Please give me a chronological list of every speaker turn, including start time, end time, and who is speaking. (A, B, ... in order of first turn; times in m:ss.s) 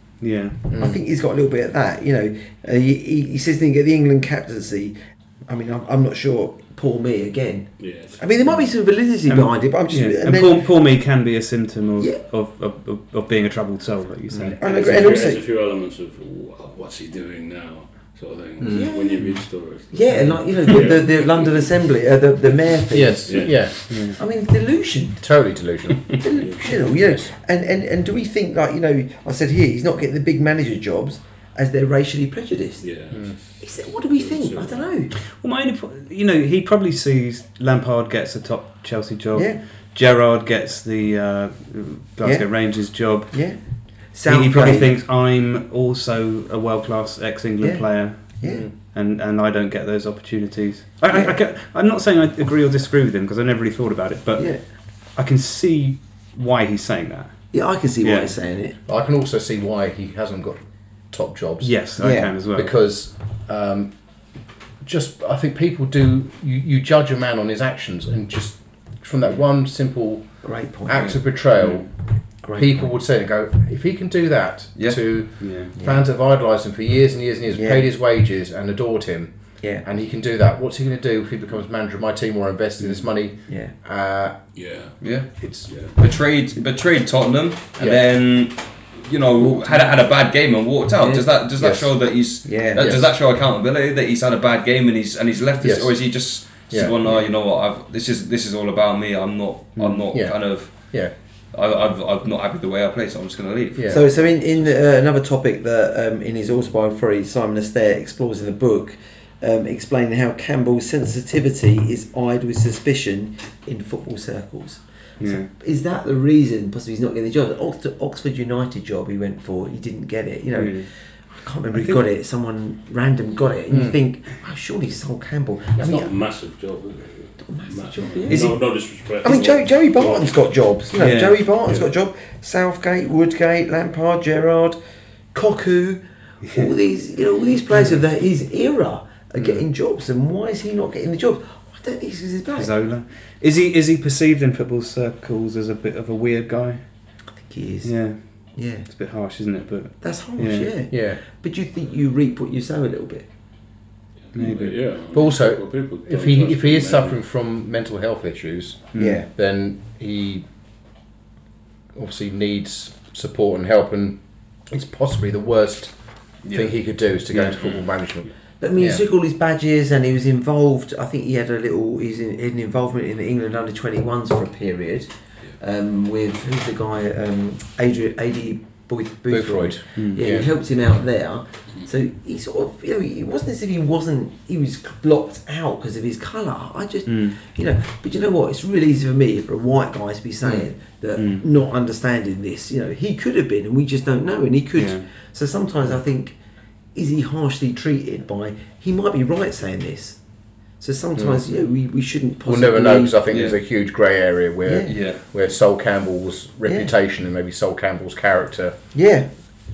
0:00.2-0:00.6 A
0:00.7-0:10.6 B
0:00.7-0:01.0 C
0:07.8-0:08.6 D
0:09.3-0:15.2 A
0:14.3-0:15.0 C
0:14.6-0:21.9 D
0:14.6-0:15.4 B
0:18.6-0:18.9 C
0:18.7-0:25.2 B
0:19.2-0:19.4 A
0:22.6-0:23.7 D
0:22.9-0:24.1 C
0:23.9-0:24.2 A
0:25.2-0:27.3 C
0:26.2-0:35.1 B
0:26.2-0:26.8 D
0:32.8-0:35.0 D
0:33.1-0:33.4 C
0:35.1-0:58.4 A
0:39.3-0:39.6 B
0:42.2-0:44.9 B
0:47.6-0:48.7 B
0:48.4-0:48.7 C
0:51.1-0:51.4 B
0:54.4-0:54.6 B
0:57.5-0:58.8 B
0:58.9-1:25.8 C
1:01.6-1:02.7 A
1:02.0-1:02.3 B
1:10.4-1:11.6 B
1:11.6-1:11.9 A
1:12.4-1:12.9 B
1:14.8-1:15.5 E
1:15.4-1:15.7 A
1:15.7-1:16.1 B
1:17.5-1:17.9 B
1:19.6-1:19.8 B
1:22.8-1:23.1 A
1:23.5-1:23.7 B
1:24.5-1:26.0 D
1:25.0-1:44.8 E
1:27.8-1:28.0 C
1:30.9-1:31.3 B
1:31.6-1:33.1 C
1:32.4-1:32.9 B
1:35.6-1:36.9 C
1:37.0-1:37.3 B
1:39.8-1:40.1 A
1:40.1-1:41.1 C
1:43.7-1:44.0 C
1:43.9-2:06.1 B
1:55.2-1:55.5 A
2:00.6-2:02.0 A
2:03.7-2:04.0 C
2:05.8-2:06.1 C
2:05.8-2:10.6 D
2:07.4-2:14.8 B
2:11.0-2:11.9 A
2:15.3-2:22.7 B
2:16.4-2:16.7 A
2:22.6-2:27.3 A
2:27.3-2:28.9 B
2:27.8-2:30.7 A
2:30.0-2:33.3 B
2:30.9-2:31.2 C
2:34.3-2:37.2 D
2:34.3-2:35.0 A
2:35.1-2:40.4 C
2:38.9-2:39.2 A
2:39.0-2:39.3 B
2:41.9-2:49.0 C
2:46.4-2:46.7 E
2:47.3-2:47.8 E
2:48.6-3:16.4 B
2:59.3-3:00.5 C
3:00.0-3:00.3 A
3:07.1-3:07.4 A
3:10.4-3:11.4 A
3:14.8-3:15.0 A
3:16.9-3:23.2 B
3:21.2-3:21.4 C
3:22.4-3:28.8 C
3:23.3-3:23.6 E
3:24.6-3:24.9 B
3:24.9-3:25.2 E
3:26.6-3:26.9 B
3:28.9-3:29.3 B